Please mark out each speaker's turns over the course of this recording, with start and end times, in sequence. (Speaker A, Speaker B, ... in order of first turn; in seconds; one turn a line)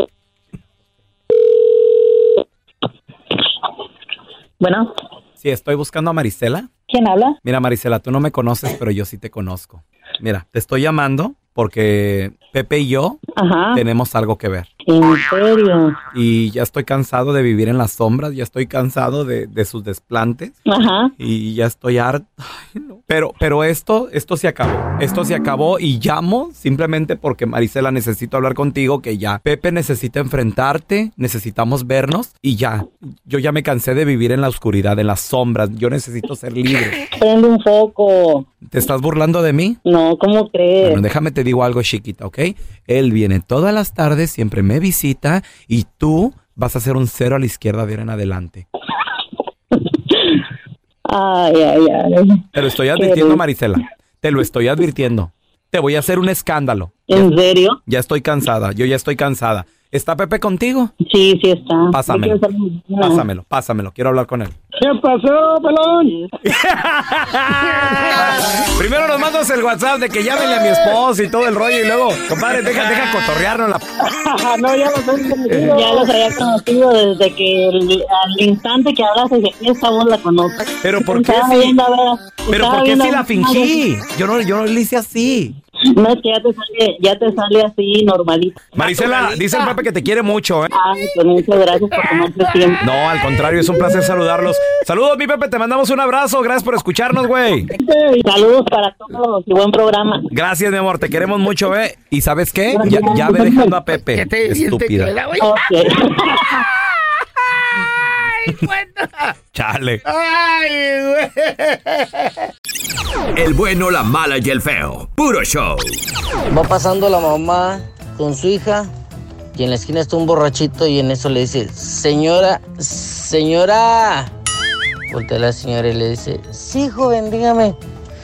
Speaker A: 4.6-4.9
Speaker B: 5.4-6.7
Speaker A: 6.9-7.4
Speaker B: 7.4-13.2
Speaker A: 13.4-13.8
Speaker B: 13.7-14.7
Speaker A: 14.9-16.0
Speaker B: 16.1-20.6
Speaker A: 20.7-21.1
Speaker B: 21.2-37.0
Speaker A: 37.1-38.5
Speaker B: 38.7-39.8
Speaker A: 39.9-41.0
Speaker B: 40.8-48.6
Speaker A: 49.8-50.4
Speaker A: 51.1-53.4
Speaker B: 52.5-57.3
Speaker A: 57.1-57.8
Speaker B: 57.9-60.9
Speaker A: 61.1-63.2
Speaker B: 61.9-62.4
Speaker B: 63.0-64.5
Speaker A: 64.9-66.3
Speaker B: 66.4-73.8
Speaker A: 74.2-83.8
Speaker B: 80.8-81.8
Speaker B: 82.5-85.5
Speaker A: 85.9-88.6
Speaker B: 88.7-90.7
Speaker A: 90.7-92.9
Speaker B: 92.8-97.7
Speaker A: 97.7-100.3
Speaker B: 100.3-105.2
Speaker A: 102.7-103.8
Speaker C: 104.1-105.8
Speaker A: 105.4-106.6
Speaker C: 108.4-109.3
Speaker B: 109.5-110.0
Speaker C: 110.1-112.3
Speaker D: 113.3-115.9
Speaker E: 116.5-118.9
Speaker E: 119.5-124.3
Speaker E: 125.1-127.8